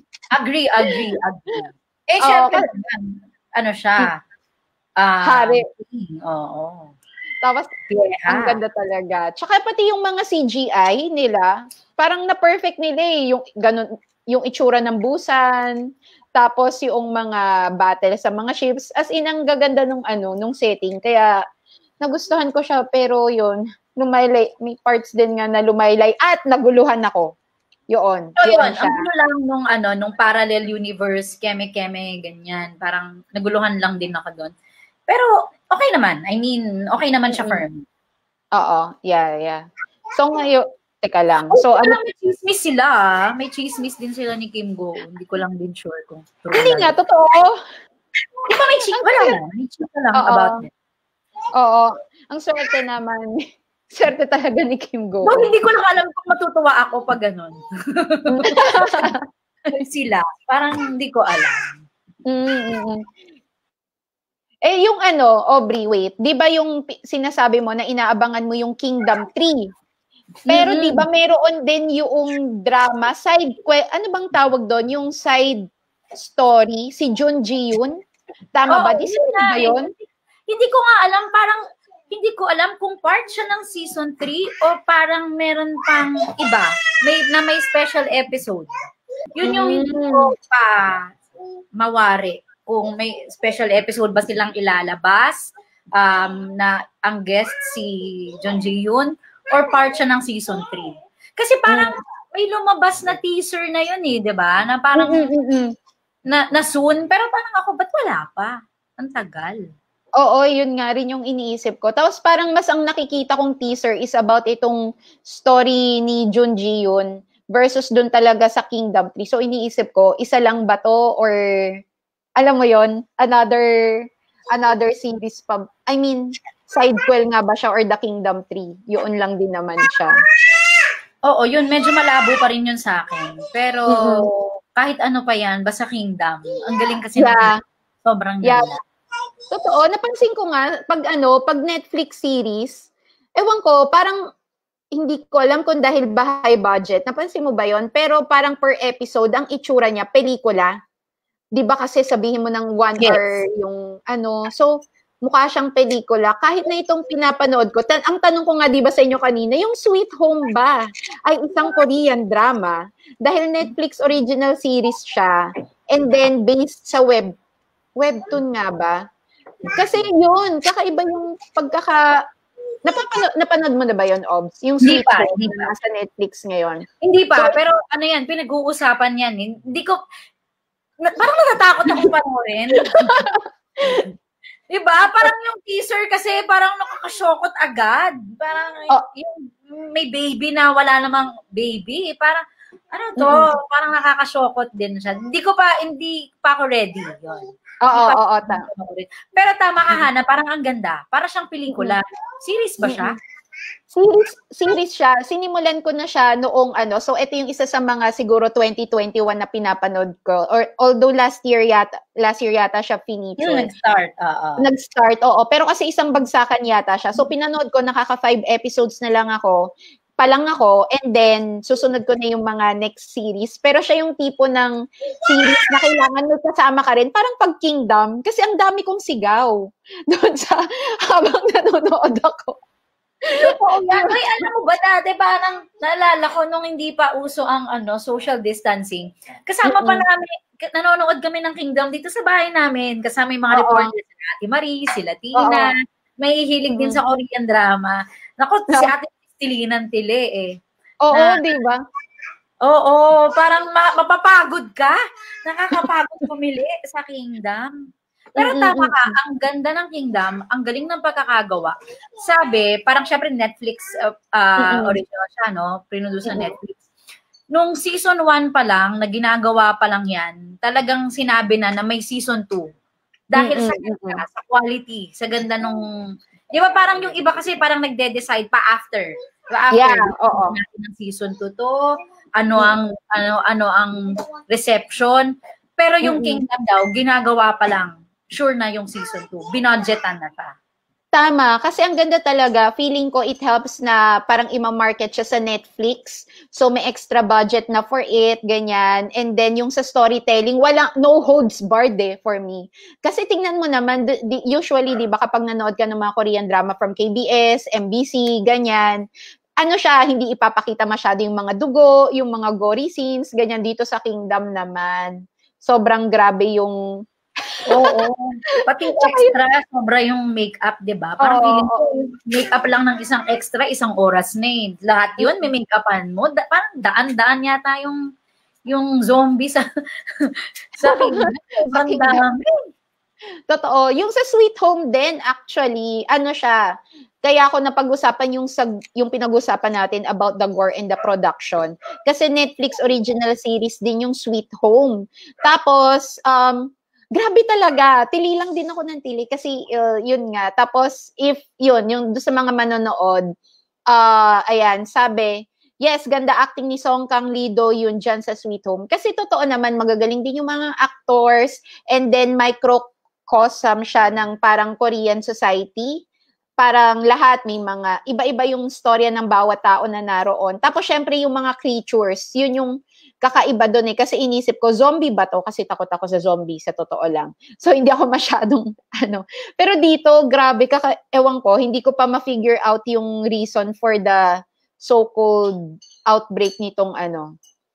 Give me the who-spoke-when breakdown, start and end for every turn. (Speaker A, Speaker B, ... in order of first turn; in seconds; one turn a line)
Speaker A: 0.3-4.1
Speaker B: 2.2-2.6
Speaker A: 5.0-6.9
Speaker B: 5.2-5.6
Speaker B: 7.4-7.7
Speaker A: 7.9-8.6
Speaker B: 8.3-15.7
Speaker B: 16.4-21.3
Speaker B: 22.0-27.3
Speaker B: 27.9-29.0
Speaker A: 28.4-34.5
Speaker A: 35.1-37.8
Speaker B: 37.3-37.6
Speaker B: 38.5-39.6
Speaker B: 40.1-42.0
Speaker A: 41.5-46.9
Speaker B: 46.5-47.6
Speaker A: 48.4-50.7
Speaker B: 49.0-49.4
Speaker B: 50.2-50.6
Speaker B: 51.6-53.4
Speaker B: 53.9-55.5
Speaker A: 55.2-59.1
Speaker B: 58.4-59.2
Speaker A: 59.7-61.8
Speaker B: 62.3-63.0
Speaker B: 64.7-69.6
Speaker A: 70.5-71.0
Speaker B: 70.5-75.6
Speaker B: 76.1-78.0
Speaker B: 78.5-79.9
Speaker A: 78.7-80.0
Speaker A: 80.5-88.7
Speaker A: 89.3-91.1
Speaker B: 89.4-90.3
Speaker A: 91.8-105.3
Speaker B: 101.7-101.9
Speaker B: 105.0-105.7
Speaker A: 106.3-109.6
Speaker B: 110.2-121.7
Speaker B: 122.4-124.0
Speaker B: 124.5-130.1
Speaker A: 131.3-138.8
Speaker B: 133.9-134.5
Speaker B: 137.2-137.6
Speaker B: 139.5-142.9
Speaker B: 143.4-144.2
Speaker B: 144.9-150.7
Speaker B: 151.6-154.7
Speaker A: 153.0-153.3
Speaker B: 155.2-167.3
Speaker B: 168.0-169.0
Speaker B: 169.7-172.0
Speaker B: 172.8-176.8
Speaker A: 174.8-175.7
Speaker A: 177.0-180.0
Speaker A: 181.0-183.2
Speaker B: 182.8-184.1
Speaker A: 183.8-184.1
Speaker A: 184.7-192.4
Speaker A: 192.9-203.2
Speaker B: 193.2-193.4
Speaker B: 197.8-198.6
Speaker B: 201.7-202.0
Speaker B: 202.8-203.2
Speaker B: 203.9-213.7
Speaker A: 213.4-214.6
Speaker B: 214.6-219.6
Speaker B: 220.2-224.7
Speaker B: 225.2-229.5
Speaker B: 230.1-232.6
Speaker B: 233.3-234.2
Speaker A: 233.3-250.5
Speaker B: 239.7-240.0
Speaker B: 243.5-243.9
Speaker B: 245.3-245.7
Speaker B: 246.7-247.0
Speaker B: 251.0-251.8
Speaker A: 251.1-251.4
Speaker A: 252.6-257.7
Speaker A: 258.4-266.8
Speaker B: 258.4-259.1
Speaker B: 264.6-265.0
Speaker A: 267.5-272.7
Speaker A: 273.3-275.8
Speaker B: 273.4-274.2
Speaker A: 276.5-290.5
Speaker B: 279.7-280.6
Speaker B: 286.0-286.4
Speaker B: 291.1-309.0
Speaker B: 309.6-316.7
Speaker A: 317.7-328.0
Speaker B: 317.7-318.0
Speaker B: 318.6-319.3
Speaker B: 321.2-321.8
Speaker B: 325.2-325.5
Speaker A: 328.7-329.6
Speaker A: 330.2-332.7
Speaker B: 330.8-332.2
Speaker B: 333.5-336.6
Speaker B: 337.2-353.2
Speaker B: 353.9-355.3
Speaker B: 355.8-366.0
Speaker B: 366.6-384.2
Speaker B: 384.8-387.3